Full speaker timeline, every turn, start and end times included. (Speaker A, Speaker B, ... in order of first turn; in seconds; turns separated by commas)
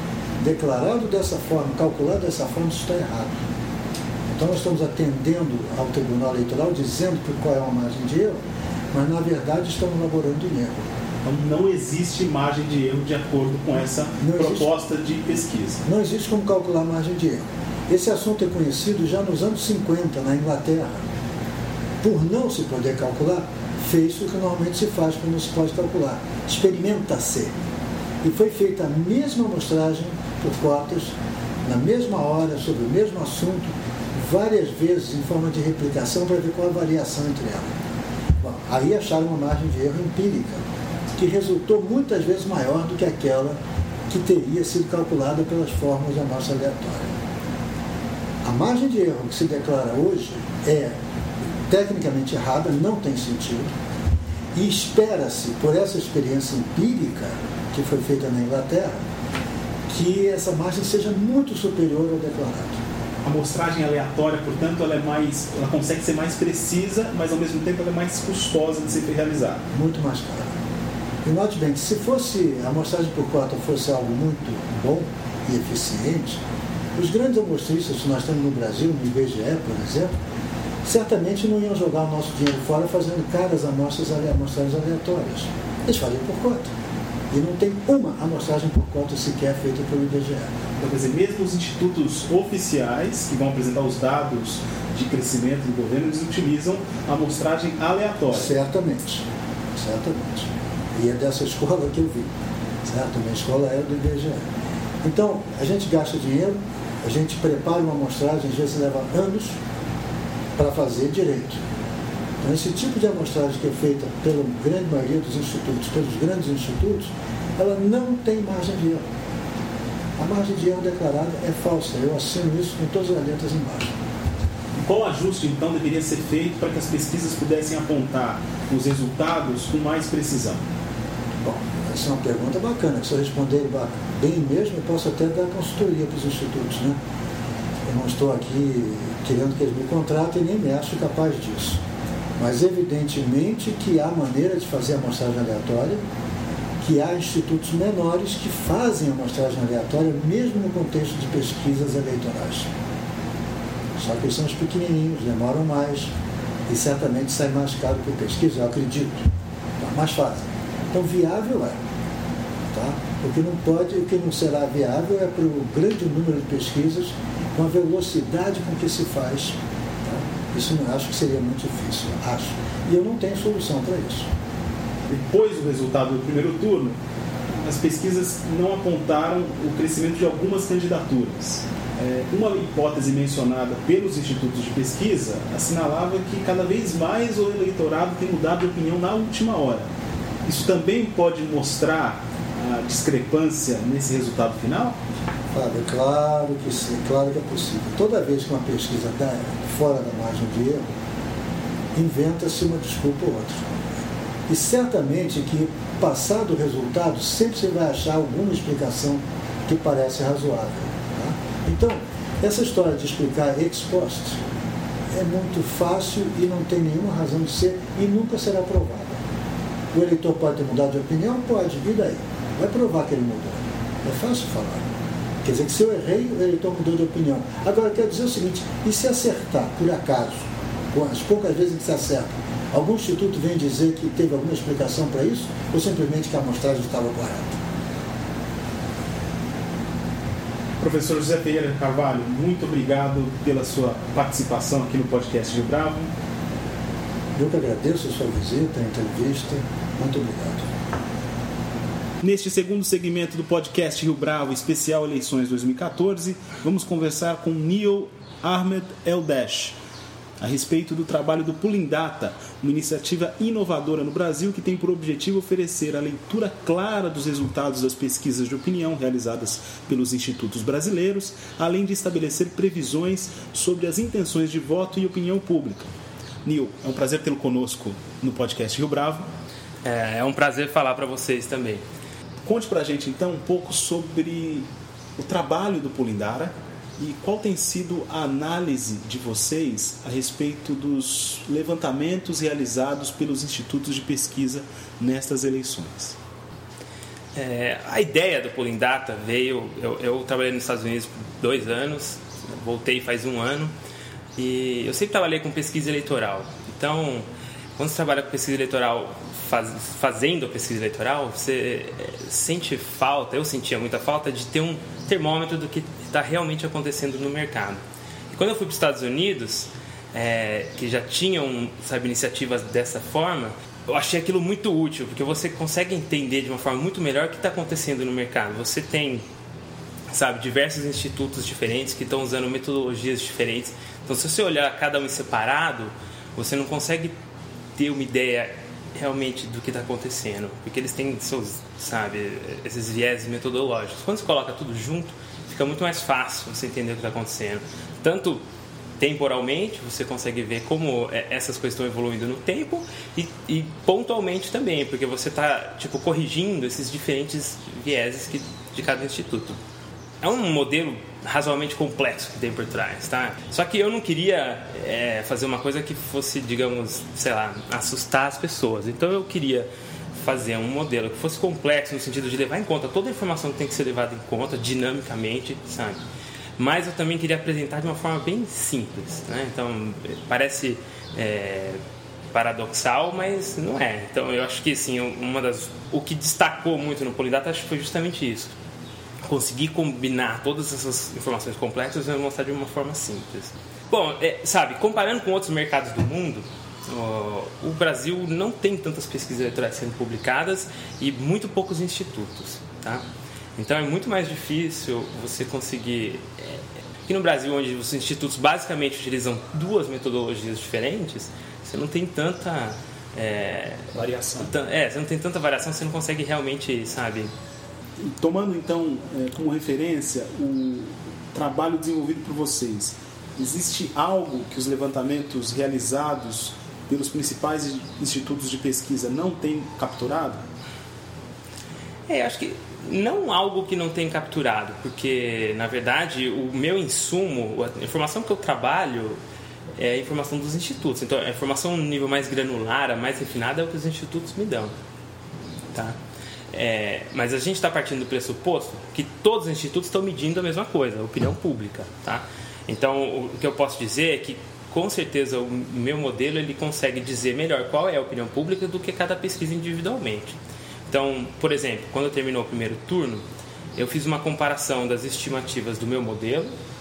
Speaker A: 0.4-3.4, Speaker A: 4.3-8.4, Speaker A: 8.9-10.9, Speaker B: 11.2-15.8, Speaker A: 14.2-14.7, Speaker A: 15.9-21.1, Speaker A: 22.0-27.5, Speaker A: 28.2-37.8, Speaker A: 38.4-40.6, Speaker A: 41.1-43.6, Speaker A: 44.1-47.2, Speaker A: 48.4-51.0, Speaker A: 51.7-53.7, Speaker A: 54.5-59.0, Speaker A: 59.9-62.8, Speaker B: 63.2-69.6, Speaker A: 69.7-70.5, Speaker A: 71.2-76.4, Speaker A: 77.0-80.1, Speaker A: 80.8-86.7, Speaker A: 87.3-90.5, Speaker B: 90.8-98.5, Speaker A: 98.3-104.5, Speaker A: 105.0-109.6, Speaker A: 110.6-111.6, Speaker A: 112.4-119.1, Speaker A: 120.2-124.0, Speaker B: 124.8-130.6, Speaker A: 131.4-137.0, Speaker A: 137.9-141.8, Speaker A: 142.4-146.0, Speaker A: 146.8-152.7, Speaker A: 154.0-156.1, Speaker A: 156.7-161.8, Speaker A: 162.7-174.3, Speaker B: 175.1-177.0, Speaker B: 177.6-189.9, Speaker B: 190.5-195.0, Speaker A: 195.5-200.9, Speaker A: 202.0-203.7, Speaker A: 204.5-214.4, Speaker A: 215.1-219.2, Speaker A: 219.9-224.9, Speaker A: 225.4-237.6, Speaker B: 240.8-246.1, Speaker A: 247.3-250.7, Speaker B: 252.2-259.8, Speaker B: 260.4-275.9, Speaker B: 276.4-279.3, Speaker C: 279.8-281.8, Speaker B: 282.4-284.6, Speaker B: 285.2-296.2, Speaker C: 297.4-303.7, Speaker C: 304.4-329.2, Speaker C: 330.1-337.1, Speaker C: 337.8-348.4, Speaker C: 349.0-359.6, Speaker C: 360.2-376.0, Speaker C: 376.6-381.8, Speaker C: 382.3-388.5, Speaker C: 389.2-403.0, Speaker C: 403.6-417.3, Speaker B: 414.0-414.5, Speaker B: 418.0-430.4, Speaker C: 432.1-439.2, Speaker C: 439.8-444.7, Speaker C: 446.5-460.4, Speaker C: 460.9-466.5